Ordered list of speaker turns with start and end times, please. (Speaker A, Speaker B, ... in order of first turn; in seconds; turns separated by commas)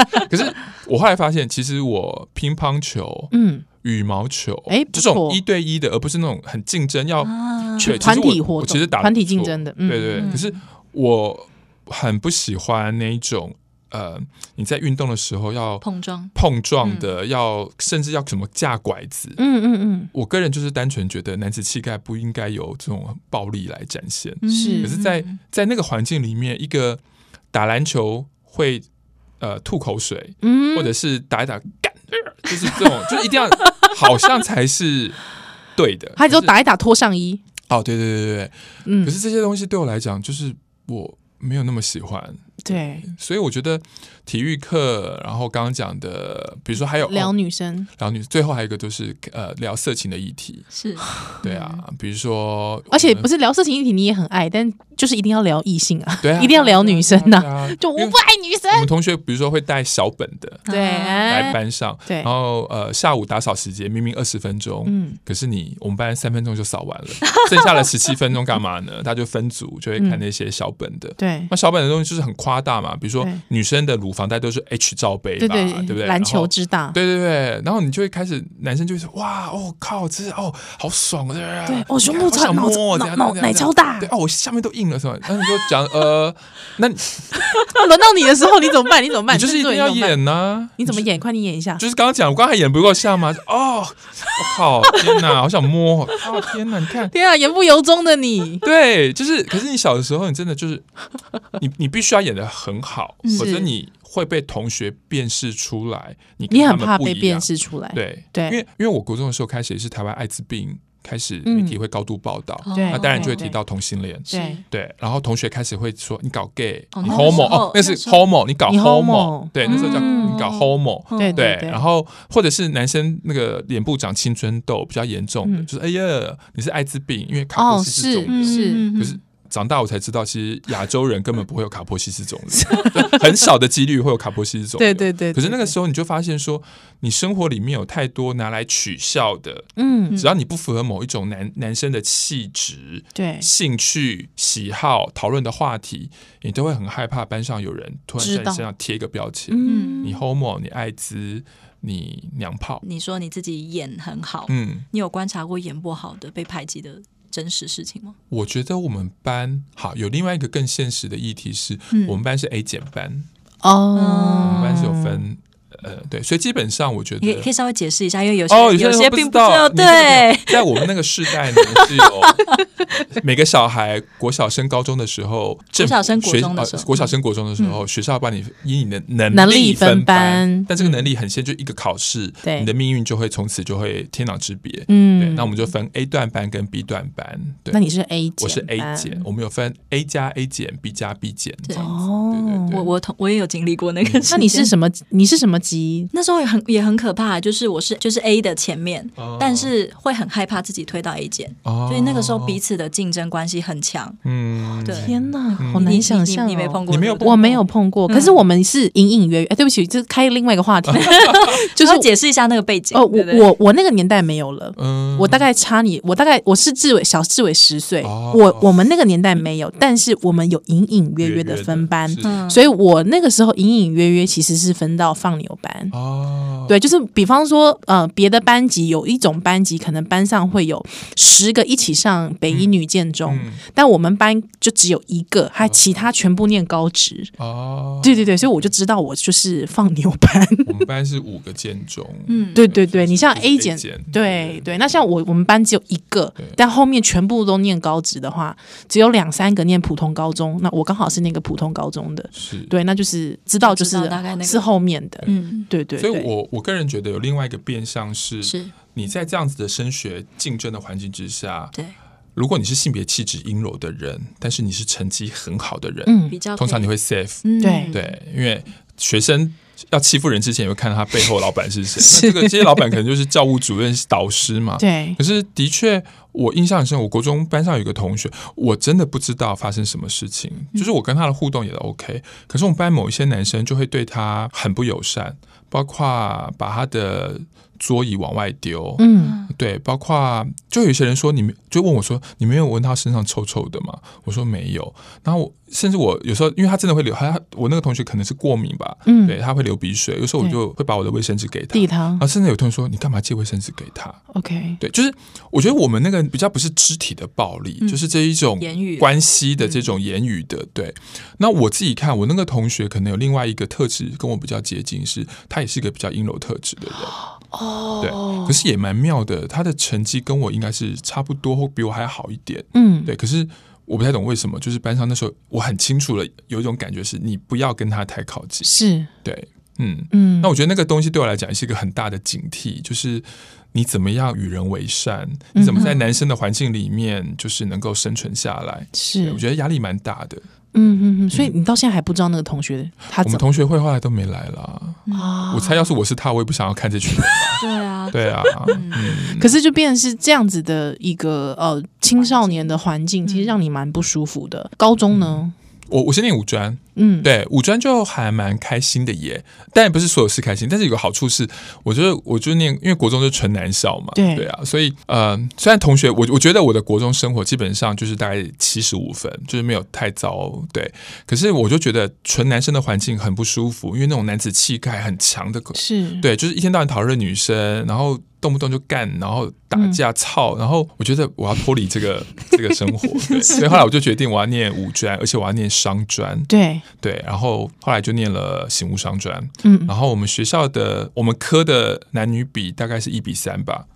Speaker A: 0.2-19.4, Speaker B: 3.3-3.6, Speaker B: 4.7-5.4, Speaker C: 7.2-8.1, Speaker B: 7.8-10.4, Speaker C: 10.2-10.6, Speaker C: 15.8-17.1, Speaker B: 19.4-20.1, Speaker A: 20.1-27.0, Speaker C: 24.4-25.4, Speaker B: 24.5-24.9, Speaker A: 27.5-28.9, Speaker A: 29.4-35.2, Speaker B: 30.4-30.9, Speaker A: 35.8-36.5, Speaker B: 36.2-37.4, Speaker A: 37.7-47.4, Speaker B: 38.9-39.2, Speaker B: 42.6-43.1, Speaker B: 47.0-47.9, Speaker A: 48.0-50.6, Speaker C: 50.7-51.8, Speaker A: 51.4-53.3, Speaker B: 52.9-58.9, Speaker A: 56.2-58.2, Speaker A: 58.7-60.6, Speaker C: 60.7-61.5, Speaker B: 60.7-62.3, Speaker A: 61.3-87.7, Speaker B: 64.9-65.2, Speaker C: 67.3-67.9, Speaker B: 70.0-70.2, Speaker B: 71.2-71.5, Speaker B: 75.4-77.0, Speaker B: 81.7-84.1, Speaker B: 87.6-90.2, Speaker A: 89.3-91.1, Speaker B: 90.8-91.8, Speaker A: 91.8-97.1, Speaker B: 96.2-96.5, Speaker B: 97.1-98.6, Speaker A: 98.6-100.9, Speaker A: 101.6-152.8, Speaker C: 103.2-103.6, Speaker B: 103.4-103.7, Speaker B: 106.5-108.6, Speaker B: 111.5-111.8, Speaker C: 112.6-113.5, Speaker B: 112.7-113.5, Speaker C: 114.3-114.6, Speaker B: 114.3-114.6, Speaker C: 117.0-118.2, Speaker B: 117.0-117.5, Speaker B: 118.7-120.4, Speaker C: 119.6-121.4, Speaker B: 121.2-121.8, Speaker B: 127.5-128.9, Speaker C: 128.3-129.2, Speaker B: 132.5-133.3, Speaker B: 134.8-135.8, Speaker B: 139.8-140.2, Speaker B: 143.2-143.5, Speaker B: 148.2-148.7, Speaker B: 149.5-150.2, Speaker C: 149.7-150.2, Speaker C: 152.8-158.2, Speaker A: 154.5-154.9, Speaker A: 158.3-163.3, Speaker C: 161.9-162.2, Speaker B: 163.6-165.2, Speaker C: 163.9-164.9, Speaker A: 164.4-167.5, Speaker C: 167.2-172.6, Speaker A: 168.5-187.8, Speaker C: 175.8-177.8, Speaker B: 179.3-180.7, Speaker C: 180.8-181.1, Speaker B: 182.4-182.7, Speaker B: 184.9-185.6, Speaker B: 187.7-189.2, Speaker A: 188.4-192.9, Speaker C: 191.7-192.0, Speaker B: 191.7-192.8, Speaker C: 192.7-194.7, Speaker A: 194.0-194.4, Speaker B: 194.3-196.1, Speaker C: 196.1-204.2, Speaker A: 199.2-199.7, Speaker A: 201.7-202.6, Speaker A: 204.2-206.1, Speaker C: 204.8-208.4, Speaker B: 204.9-212.1, Speaker A: 206.9-207.4, Speaker A: 210.8-211.6, Speaker C: 210.9-213.5, Speaker B: 212.9-225.9, Speaker A: 214.8-215.5, Speaker A: 218.0-218.7, Speaker A: 221.2-222.4, Speaker C: 222.2-222.6, Speaker A: 225.9-226.7, Speaker B: 226.7-237.3, Speaker A: 232.5-232.7, Speaker A: 233.3-233.6, Speaker A: 235.6-236.1, Speaker A: 237.4-238.5, Speaker B: 238.0-240.8, Speaker A: 240.7-244.7, Speaker C: 242.3-242.6, Speaker B: 242.5-256.3, Speaker A: 252.3-252.7, Speaker C: 253.6-254.7, Speaker C: 255.2-255.7, Speaker A: 256.0-261.8, Speaker C: 258.4-258.7, Speaker A: 262.4-304.2, Speaker B: 266.1-266.4, Speaker C: 266.3-266.9, Speaker C: 267.4-268.1, Speaker B: 267.6-267.9, Speaker B: 272.0-272.8, Speaker B: 274.8-275.2, Speaker B: 289.0-289.4, Speaker C: 289.2-289.5, Speaker B: 299.1-299.4, Speaker B: 301.7-302.2, Speaker B: 304.3-304.8, Speaker A: 304.8-317.1, Speaker C: 307.8-308.1, Speaker C: 308.6-309.1, Speaker B: 317.2-318.6, Speaker A: 318.0-328.7, Speaker B: 322.7-323.1, Speaker B: 328.6-329.1, Speaker A: 329.2-340.5, Speaker B: 330.1-330.5, Speaker B: 335.6-335.9, Speaker C: 335.8-336.0, Speaker B: 338.9-339.4, Speaker B: 340.7-343.4, Speaker A: 343.2-349.5, Speaker C: 345.1-345.4, Speaker B: 345.1-345.9, Speaker C: 347.6-349.2, Speaker B: 349.3-355.5, Speaker C: 352.2-353.6, Speaker A: 355.1-393.9, Speaker B: 357.0-357.3, Speaker B: 364.1-364.5, Speaker B: 375.8-376.2, Speaker B: 386.5-386.8, Speaker B: 389.6-389.9